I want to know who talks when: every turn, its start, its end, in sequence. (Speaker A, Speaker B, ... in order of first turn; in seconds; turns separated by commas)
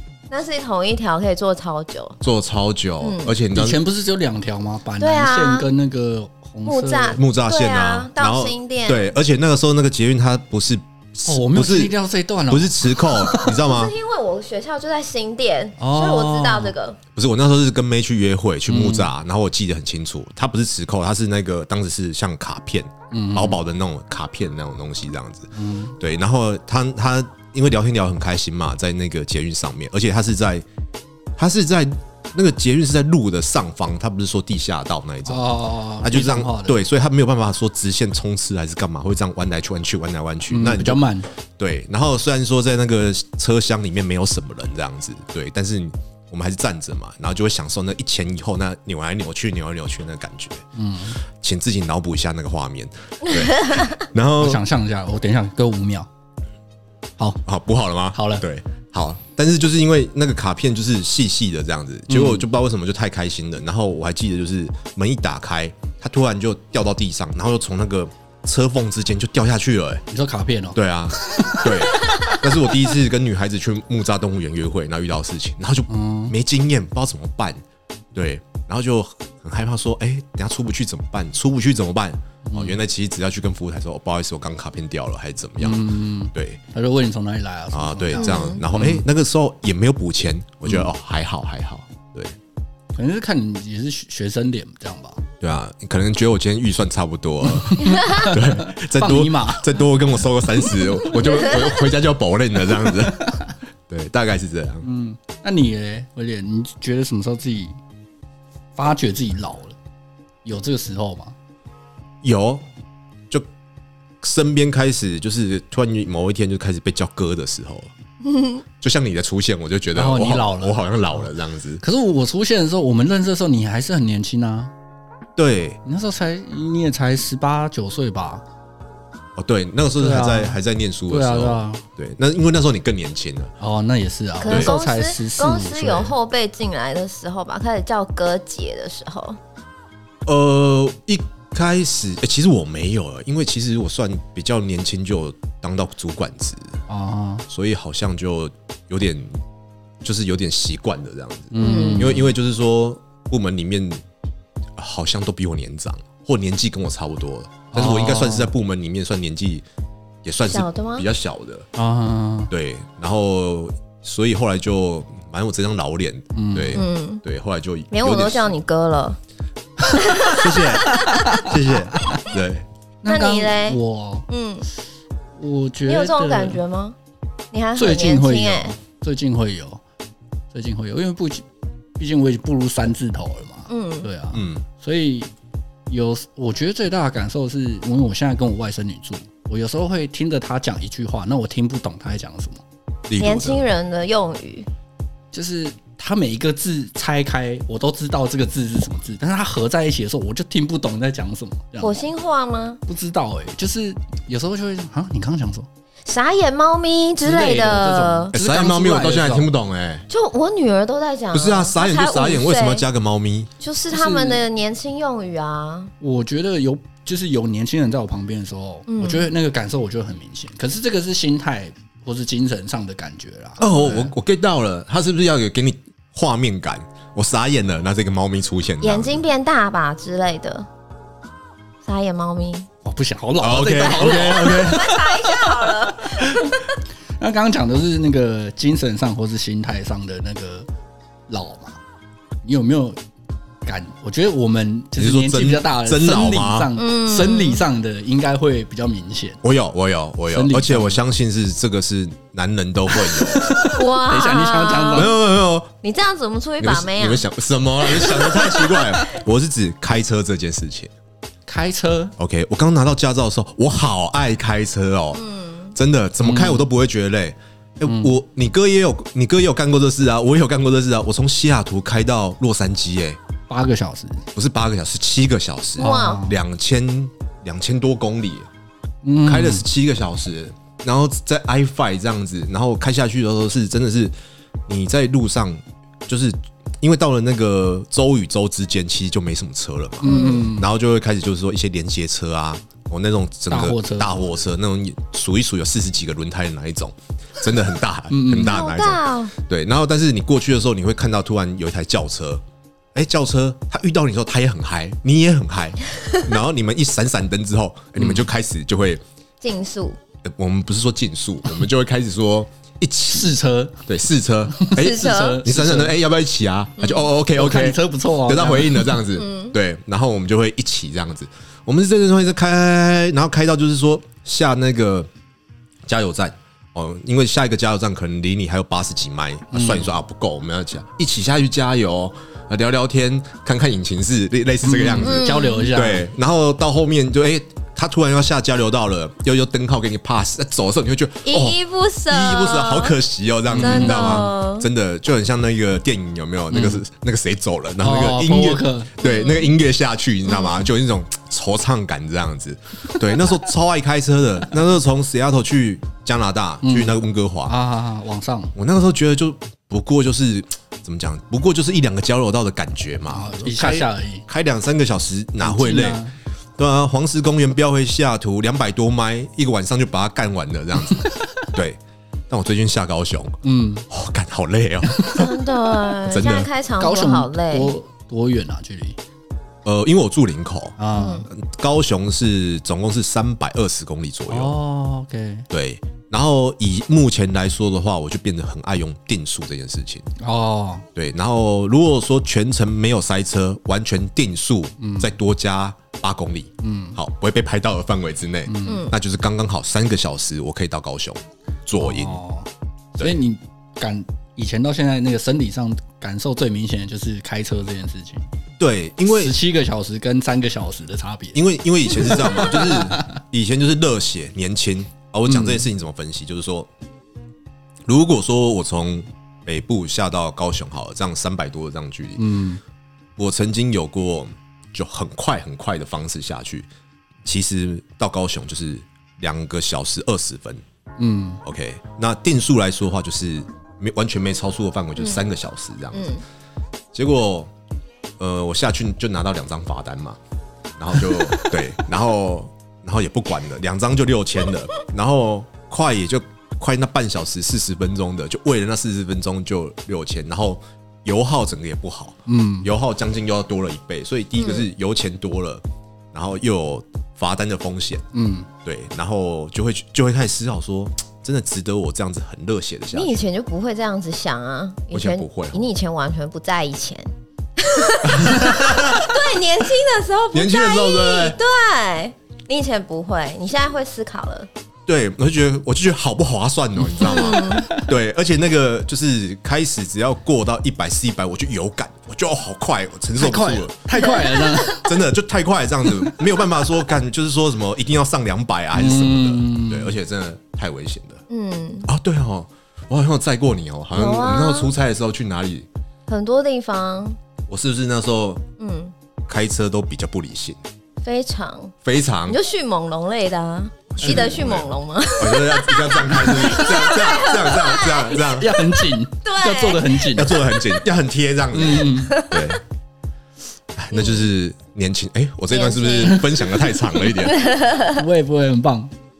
Speaker A: 0.3-2.2, Speaker B: 2.2-3.8, Speaker A: 3.0-3.4, Speaker C: 3.5-7.2, Speaker A: 5.0-5.7, Speaker A: 6.7-9.1, Speaker B: 7.1-11.9, Speaker C: 11.2-13.5, Speaker B: 12.5-13.9, Speaker A: 13.4-17.0, Speaker C: 15.8-16.7, Speaker B: 17.1-30.6, Speaker C: 18.7-19.1, Speaker C: 23.1-23.6, Speaker C: 25.5-26.0, Speaker B: 31.4-41.0, Speaker C: 35.2-36.8, Speaker C: 40.5-41.3, Speaker B: 41.6-50.6, Speaker C: 50.7-51.2, Speaker B: 51.2-54.6, Speaker C: 54.4-56.1, Speaker B: 57.4-70.0, Speaker C: 58.1-58.4, Speaker C: 62.1-62.5, Speaker C: 70.1-72.4, Speaker B: 70.7-77.6, Speaker C: 75.9-76.3, Speaker B: 78.1-86.6, Speaker C: 82.4-82.8, Speaker C: 85.6-89.0, Speaker B: 87.7-92.3, Speaker A: 88.2-88.6, Speaker C: 92.9-95.2, Speaker B: 95.4-103.3, Speaker C: 97.5-99.7, Speaker C: 103.1-103.5, Speaker B: 103.9-104.8, Speaker C: 104.8-107.8, Speaker C: 108.8-109.8, Speaker C: 110.4-111.3, Speaker B: 112.2-112.6, Speaker B: 114.2-117.9, Speaker A: 118.3-118.6, Speaker B: 118.8-121.8, Speaker C: 119.9-121.2, Speaker C: 121.8-124.7, Speaker B: 125.3-125.8, Speaker C: 125.8-128.4, Speaker B: 129.3-133.5, Speaker C: 130.0-131.8, Speaker C: 133.6-136.1, Speaker A: 134.4-139.4, Speaker B: 134.4-134.7, Speaker B: 140.2-146.8, Speaker C: 146.9-147.4, Speaker B: 147.5-149.4, Speaker B: 150.0-154.0, Speaker C: 151.5-152.3, Speaker A: 151.6-152.2, Speaker B: 154.8-159.7, Speaker C: 157.7-158.5, Speaker B: 160.2-161.7, Speaker A: 160.4-161.1, Speaker C: 161.8-162.5, Speaker B: 162.5-168.5, Speaker C: 166.3-166.8, Speaker A: 166.7-167.2, Speaker A: 167.9-169.2, Speaker A: 169.9-171.2, Speaker C: 169.9-170.3, Speaker B: 170.3-172.7, Speaker C: 170.8-172.2, Speaker C: 173.0-174.3, Speaker A: 173.1-174.7, Speaker C: 175.3-176.6, Speaker A: 175.9-176.9, Speaker A: 177.5-178.7, Speaker C: 177.8-179.8, Speaker C: 180.5-181.4, Speaker C: 182.0-185.3, Speaker A: 183.7-184.1, Speaker B: 184.3-184.6, Speaker C: 185.9-192.6, Speaker B: 193.1-193.7, Speaker A: 193.2-194.7, Speaker C: 195.3-202.0, Speaker A: 201.8-202.8, Speaker C: 202.8-205.7, Speaker A: 206.1-208.3, Speaker C: 207.2-209.5, Speaker B: 208.3-210.0, Speaker A: 210.1-212.8, Speaker B: 211.3-213.5, Speaker A: 213.6-215.9, Speaker C: 213.9-214.4, Speaker C: 216.0-224.1, Speaker A: 218.9-219.3, Speaker B: 223.6-229.3, Speaker A: 228.8-230.7, Speaker A: 231.8-232.7, Speaker C: 232.8-236.5, Speaker B: 233.4-234.9, Speaker A: 233.8-236.6, Speaker C: 237.2-240.7, Speaker C: 241.3-241.8, Speaker C: 242.4-243.0, Speaker C: 243.6-249.4, Speaker B: 244.9-246.7, Speaker A: 246.8-247.6, Speaker B: 249.4-253.6, Speaker C: 250.3-251.0, Speaker C: 253.3-255.1, Speaker A: 253.6-255.2, Speaker B: 254.9-255.7, Speaker A: 255.8-257.3, Speaker B: 256.6-260.9, Speaker A: 257.8-259.0, Speaker C: 261.5-262.1, Speaker B: 262.2-265.2, Speaker A: 265.1-265.7, Speaker B: 265.7-273.2, Speaker C: 266.2-266.6, Speaker C: 267.8-268.1, Speaker C: 273.5-274.2, Speaker B: 274.3-278.5, Speaker C: 275.8-276.4, Speaker A: 275.8-276.3, Speaker C: 279.0-279.6, Speaker B: 279.2-284.1, Speaker B: 284.7-302.4, Speaker C: 290.0-290.7, Speaker A: 290.0-290.5, Speaker C: 293.5-294.3, Speaker C: 298.1-298.6, Speaker A: 298.4-299.3, Speaker B: 302.9-309.0, Speaker C: 308.0-308.2, Speaker A: 309.4-310.0, Speaker B: 310.2-313.3, Speaker C: 313.1-313.8, Speaker B: 313.9-325.1, Speaker C: 314.5-315.9, Speaker A: 314.8-315.4, Speaker A: 316.8-317.1, Speaker C: 317.3-319.0, Speaker A: 319.1-319.5, Speaker B: 325.9-357.5, Speaker C: 329.5-329.9, Speaker C: 334.6-336.0, Speaker A: 335.0-335.7, Speaker A: 341.2-343.0, Speaker C: 343.5-344.3, Speaker A: 343.6-344.7, Speaker C: 346.5-346.8, Speaker C: 347.8-348.9, Speaker A: 349.0-349.5, Speaker A: 350.3-350.7, Speaker C: 356.6-358.5, Speaker B: 358.5-366.0, Speaker C: 363.1-364.2, Speaker C: 365.4-366.1, Speaker B: 366.6-375.3, Speaker C: 373.4-373.9, Speaker C: 374.9-375.2, Speaker A: 375.1-377.7, Speaker B: 376.1-376.5, Speaker C: 376.8-379.0, Speaker B: 379.6-380.8, Speaker C: 380.8-381.2, Speaker A: 380.9-381.3, Speaker B: 381.3-384.6, Speaker C: 384.3-385.5, Speaker B: 385.5-390.1, Speaker C: 390.2-390.8, Speaker B: 390.9-402.2, Speaker C: 394.8-395.1, Speaker C: 396.6-397.0, Speaker C: 398.4-398.9, Speaker A: 398.6-398.9, Speaker C: 401.8-408.3, Speaker B: 408.6-409.3, Speaker C: 409.1-411.4, Speaker B: 411.3-416.7, Speaker C: 411.9-413.2, Speaker C: 415.3-415.7, Speaker B: 417.9-422.3, Speaker C: 422.2-422.6, Speaker B: 423.2-426.7, Speaker B: 427.2-430.6, Speaker C: 431.0-431.4, Speaker B: 431.4-436.1, Speaker A: 435.9-436.2, Speaker B: 436.9-437.5, Speaker B: 438.2-440.2, Speaker B: 440.8-458.1, Speaker C: 452.2-452.7, Speaker A: 454.4-454.6, Speaker C: 458.1-458.5, Speaker B: 458.6-463.2, Speaker A: 462.9-474.5, Speaker B: 464.9-465.7, Speaker B: 468.0-469.1, Speaker B: 470.3-471.4, Speaker B: 474.9-484.1, Speaker C: 477.0-477.8, Speaker A: 477.0-477.7, Speaker C: 483.2-484.8, Speaker A: 484.0-484.8, Speaker B: 484.6-491.2, Speaker C: 488.7-489.9, Speaker A: 491.3-491.9, Speaker B: 491.9-495.7, Speaker A: 493.9-494.7, Speaker A: 496.1-497.2, Speaker B: 497.5-498.4, Speaker A: 498.6-498.9, Speaker B: 499.3-500.6, Speaker A: 501.0-501.7, Speaker B: 501.8-502.4, Speaker A: 502.3-508.4, Speaker B: 503.9-508.5, Speaker C: 504.0-504.3, Speaker C: 508.2-510.3, Speaker A: 509.2-510.8, Speaker B: 510.1-512.6, Speaker C: 511.5-512.2, Speaker A: 511.9-512.6, Speaker B: 513.7-517.4, Speaker A: 513.9-514.3, Speaker A: 515.5-518.0, Speaker C: 517.9-518.9